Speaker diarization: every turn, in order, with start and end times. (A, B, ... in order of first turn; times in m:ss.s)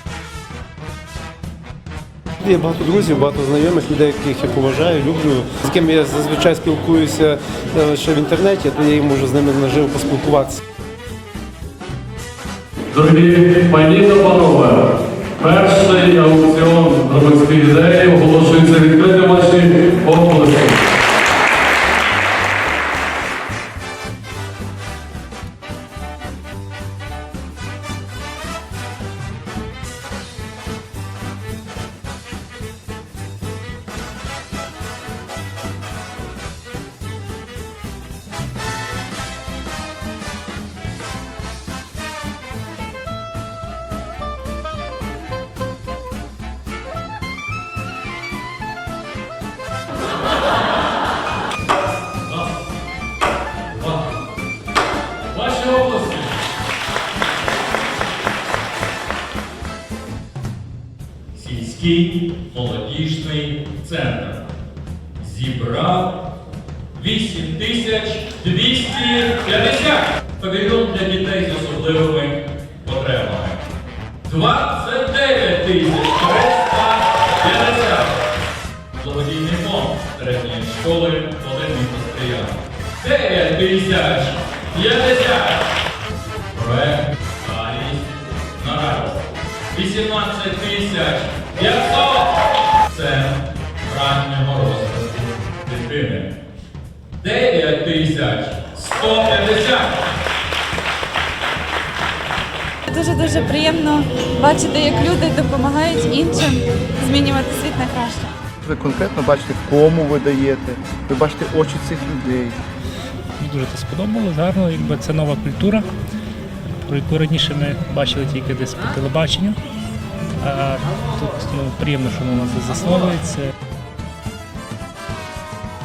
0:02.4-0:10.6 A
0:12.9-0:20.8 B
0:53.7-0:54.0 C
0:55.3-0:56.4 C
1:01.3-1:04.4 C
1:05.2-1:06.2 C
1:07.0-1:13.6 C
1:14.2-1:18.2 C
1:19.0-1:25.6 C
1:26.5-1:36.3 C
1:37.2-1:39.9 C
1:42.9-1:48.3 D
1:48.6-1:52.6 E
1:53.4-1:55.8 F
1:56.9-1:59.6 F
2:00.4-2:03.4 F